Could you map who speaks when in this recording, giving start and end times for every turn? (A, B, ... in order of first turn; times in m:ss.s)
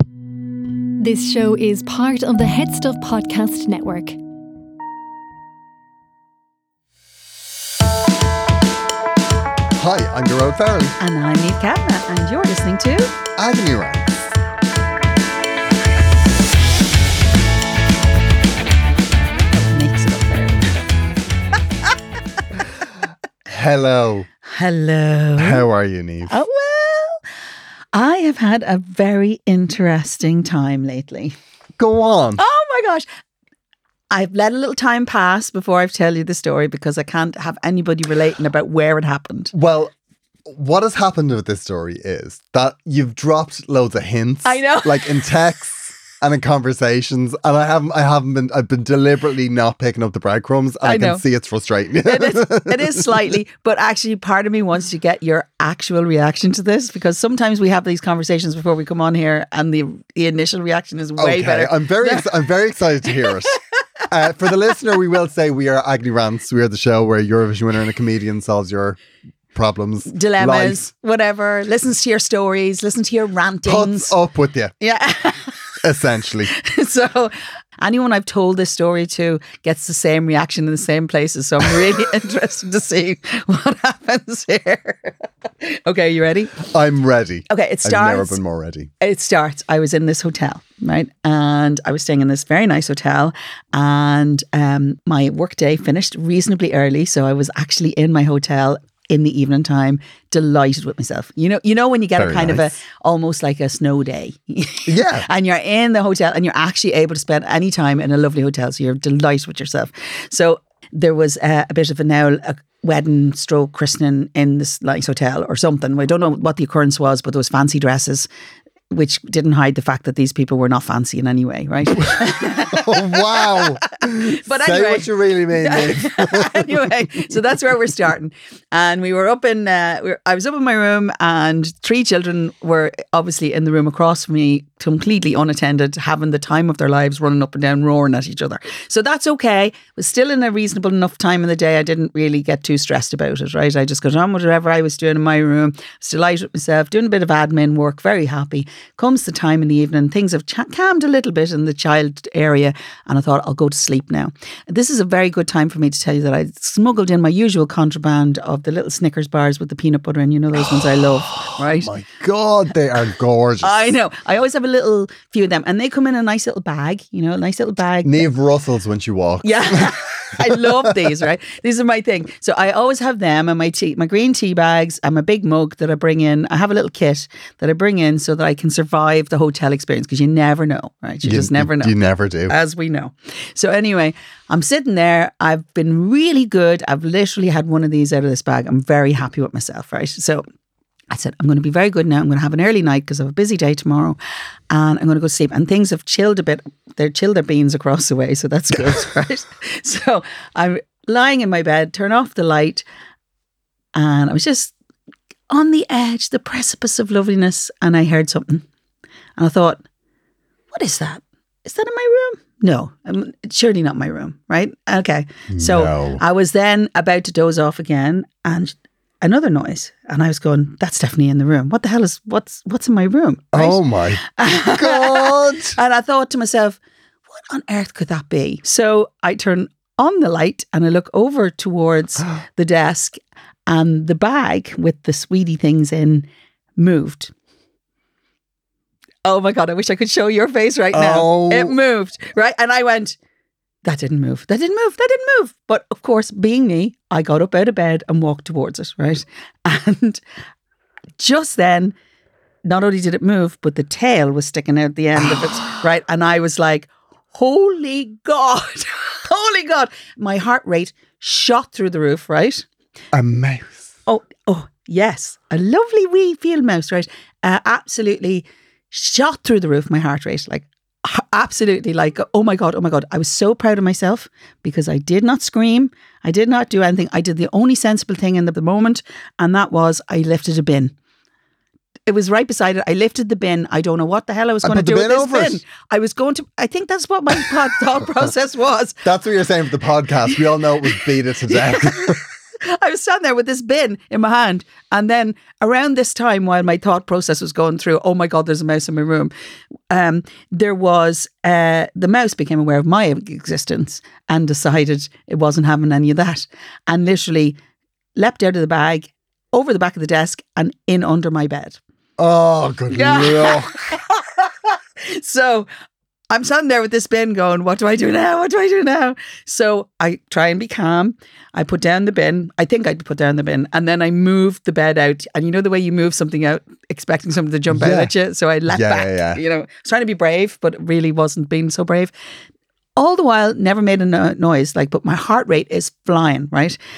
0:01.0-0:04.2 A
0:09.8-0:11.0 B
0:11.0-0:13.1 C
0:13.4-0:14.3 B
0:19.5-0:20.7 C
0:23.5-0:24.3 B
0:24.5-0:25.6 C
0:25.4-0:26.4 B
0:26.3-0:27.2 C
0:27.9-0:31.4 C
0:31.8-0:32.4 B
0:32.4-0:33.1 C
0:34.1-0:39.5 C
0:39.5-0:39.9 B
0:40.5-0:53.2 B
0:44.4-0:45.2 C
0:50.8-0:51.2 C
0:52.0-1:02.3 C
1:01.2-1:09.0 B
1:03.1-1:03.6 C
1:09.5-1:10.9 B
1:10.1-1:14.1 C
1:13.6-1:14.7 B
1:14.8-1:15.6 C
1:15.8-1:16.5 B
1:16.5-1:26.6 C
1:26.6-1:28.9 B
1:27.5-1:28.4 C
1:29.0-1:58.3 C
1:42.2-1:42.7 B
1:44.9-1:45.3 B
1:58.9-2:41.9 C
2:02.0-2:06.9 B
2:40.7-2:44.0 B
2:43.6-2:48.3 C
2:48.0-2:51.1 B
2:49.4-3:02.0 C
3:01.2-3:02.5 B
3:02.5-3:10.5 C
3:11.1-3:14.2 C
3:14.7-3:22.8 C
3:24.0-3:24.7 C
3:25.5-3:28.6 C
3:29.4-3:29.8 C
3:30.7-3:46.8 C
3:35.5-3:36.2 B
3:43.5-3:45.8 B
3:47.3-3:57.3 C
3:59.2-4:03.2 C
4:00.9-4:01.8 B
4:03.8-4:10.2 C
4:11.2-4:12.0 C
4:12.6-4:22.7 C
4:23.1-4:23.9 B
4:24.1-4:40.9 C
4:42.1-4:49.0 C
4:44.6-4:45.6 B
4:49.0-4:52.2 B
4:51.5-4:59.3 C
4:59.9-5:07.6 C
5:08.2-5:11.8 C
5:12.2-5:13.7 B
5:12.9-5:15.7 C
5:16.3-5:32.1 C
5:27.7-5:28.1 B
5:28.7-5:29.4 B
5:33.0-5:36.8 C